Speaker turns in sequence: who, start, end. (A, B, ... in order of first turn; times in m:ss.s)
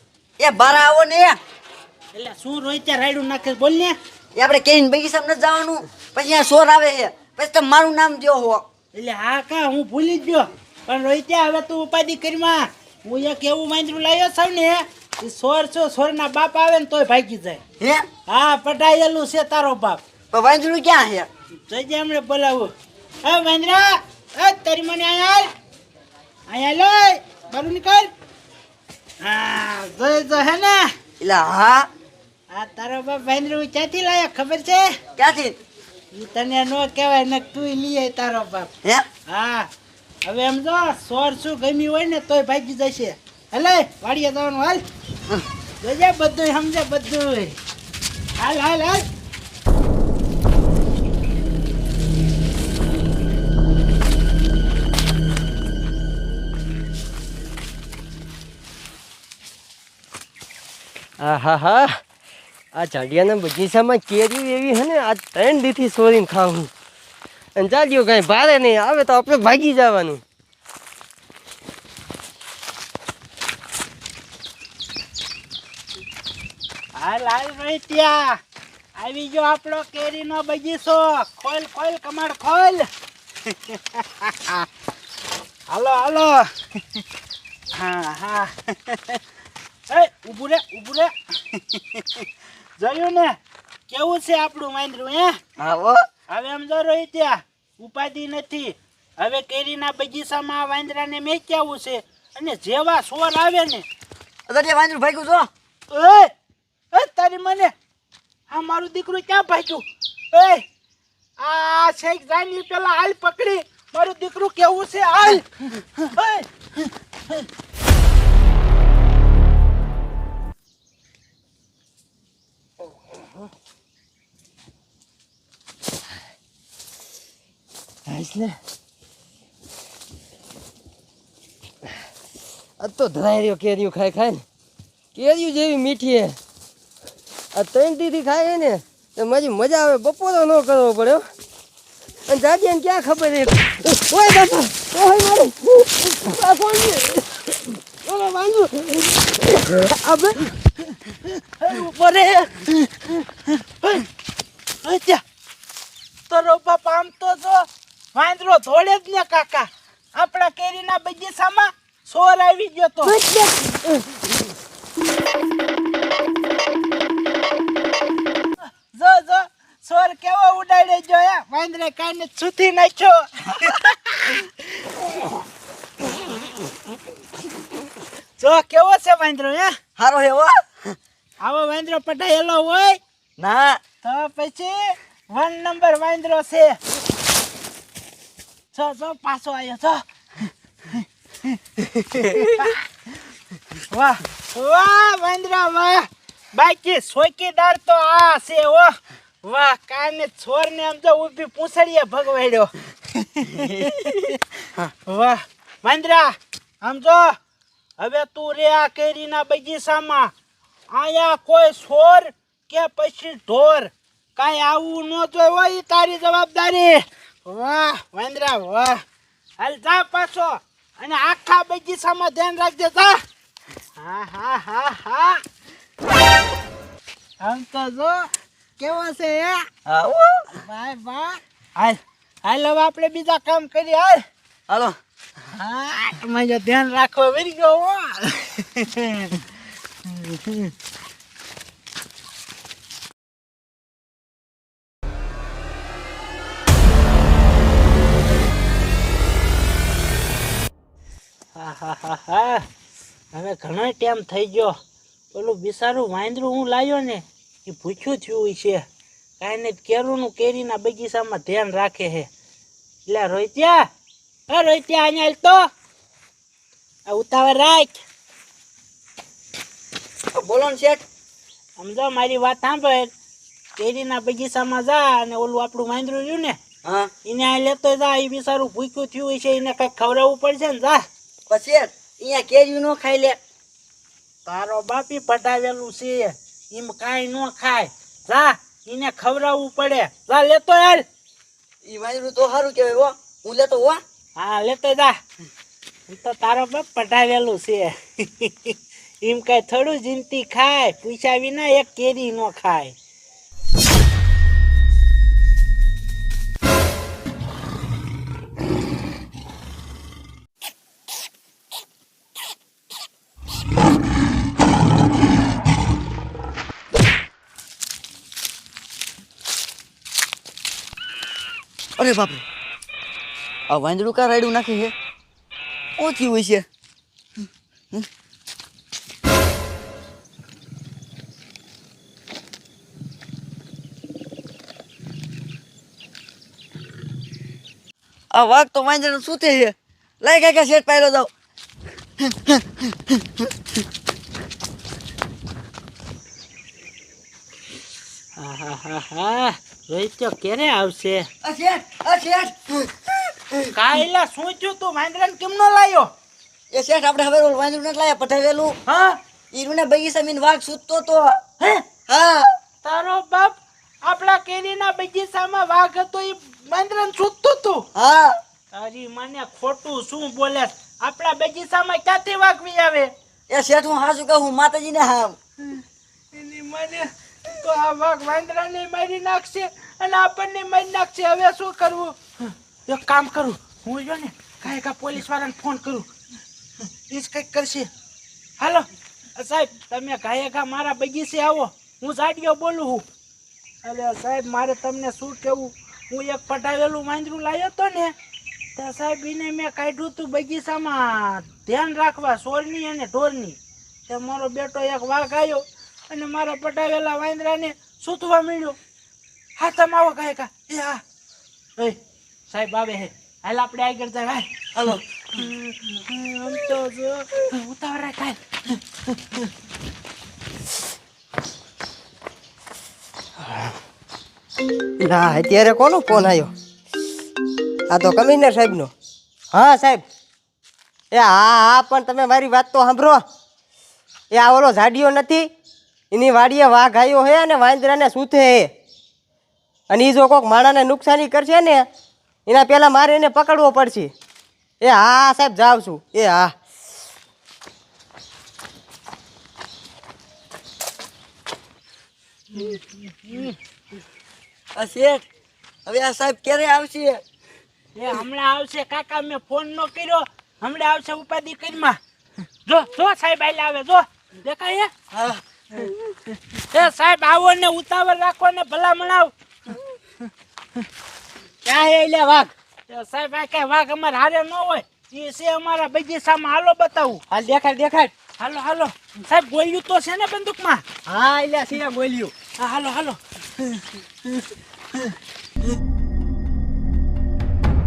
0:00.4-0:01.4 A
0:02.1-0:04.0 B
0:04.3-0:08.6 A
0:08.9-0:17.6 B
0:17.8-0:18.1 A
0:18.3-0:20.0 B
0:20.3-0:21.3 A
0:21.7-0:22.7 B
0:23.2-0:25.5 B
0:26.5-0:28.1 B
0:29.2-0:30.9 B
0:31.2-0:31.9 A
0:32.5-0:34.9 B
0:35.2-0:35.6 A
0:36.1-0:38.7 B
0:39.3-0:39.7 B
0:40.2-0:44.8 B
0:45.8-0:47.6 B
0:48.4-0:49.0 B
1:01.2-1:02.0 C
1:02.7-1:06.7 C
1:07.6-1:10.2 C
1:16.9-1:18.4 B
1:19.0-1:22.9 B
1:23.4-1:24.7 B
1:25.7-1:26.5 B
1:27.7-1:29.2 B
1:29.9-1:32.2 B
1:32.8-1:33.4 B
1:33.9-1:35.4 B
1:35.6-1:36.0 A
1:36.3-1:43.8 B
1:44.5-1:45.5 A
1:45.9-1:46.3 B
1:46.9-1:47.7 B
1:48.5-1:50.6 B
1:51.4-1:57.4 B
2:08.0-2:08.6 C
2:12.8-2:14.4 C
2:15.1-2:16.4 C
2:17.5-2:21.3 C
2:22.3-2:30.4 C
2:31.6-2:34.0 B
2:34.8-2:35.2 B
2:36.3-2:43.2 B
2:43.0-2:44.3 C
2:48.6-2:54.6 B
2:58.4-2:59.8 B
3:00.0-3:01.0 A
3:01.4-3:03.0 B
3:03.4-3:03.8 A
3:04.0-3:06.8 B
3:08.7-3:11.6 B
3:12.1-3:12.8 B
3:12.2-3:12.5 A
3:13.9-3:24.4 B
3:23.5-3:24.1 A
3:25.0-3:27.4 B
3:28.0-3:30.3 B
3:30.9-3:39.0 B
3:39.6-3:43.2 B
3:44.0-3:45.4 B
3:47.4-3:49.7 B
3:49.8-3:50.5 A
3:50.6-3:54.2 B
3:54.7-3:55.0 A
3:55.5-3:59.3 B
4:00.0-4:00.7 B
4:11.5-4:12.7 B
4:13.3-4:14.8 B
4:15.3-4:18.8 B
4:19.4-4:22.3 B
4:23.1-4:23.8 B
4:24.5-4:25.6 B
4:27.0-4:28.0 B
4:30.3-4:31.0 A
4:31.8-4:33.1 B
4:33.8-4:36.6 B
4:36.8-4:37.1 A
4:37.2-4:41.0 B
4:41.5-4:43.4 A
4:44.4-4:51.0 B
4:51.8-4:54.0 A
4:54.4-4:55.2 B
4:56.1-5:02.9 B
5:22.0-5:22.4 A
5:23.7-5:24.9 A
5:26.0-5:26.6 A
5:38.3-5:41.3 A
5:42.2-5:43.5 A
5:48.4-5:51.3 B
5:51.4-5:53.7 A
5:53.7-5:56.1 B
5:56.7-5:58.8 A
5:58.9-5:59.2 B
5:59.5-6:02.5 A
6:02.8-6:07.9 B
6:07.9-6:08.4 A
6:08.7-6:13.1 B
6:13.5-6:15.4 A
6:15.6-6:26.1 B
6:27.1-6:27.9 B
6:28.6-6:33.0 B
6:33.8-6:38.1 B
6:38.8-6:48.8 B
6:49.6-6:51.0 B
6:51.8-6:54.5 B
6:54.7-6:55.0 A
6:55.3-6:59.5 B
7:05.0-7:06.5 C
7:07.9-7:08.9 C
7:09.5-7:10.0 C
7:11.1-7:13.2 C
7:14.3-7:15.5 C
7:16.1-7:18.7 C
7:19.9-7:21.8 C
7:22.5-7:24.1 C
7:24.8-7:26.5 C
7:32.5-7:33.6 B
7:34.8-7:35.2 A
7:35.8-7:37.2 A
7:37.9-7:42.0 B
7:42.6-7:44.9 B
7:45.1-7:45.9 A
7:46.5-7:49.8 B
7:51.6-8:01.0 B
8:01.1-8:02.3 A
8:02.6-8:03.8 B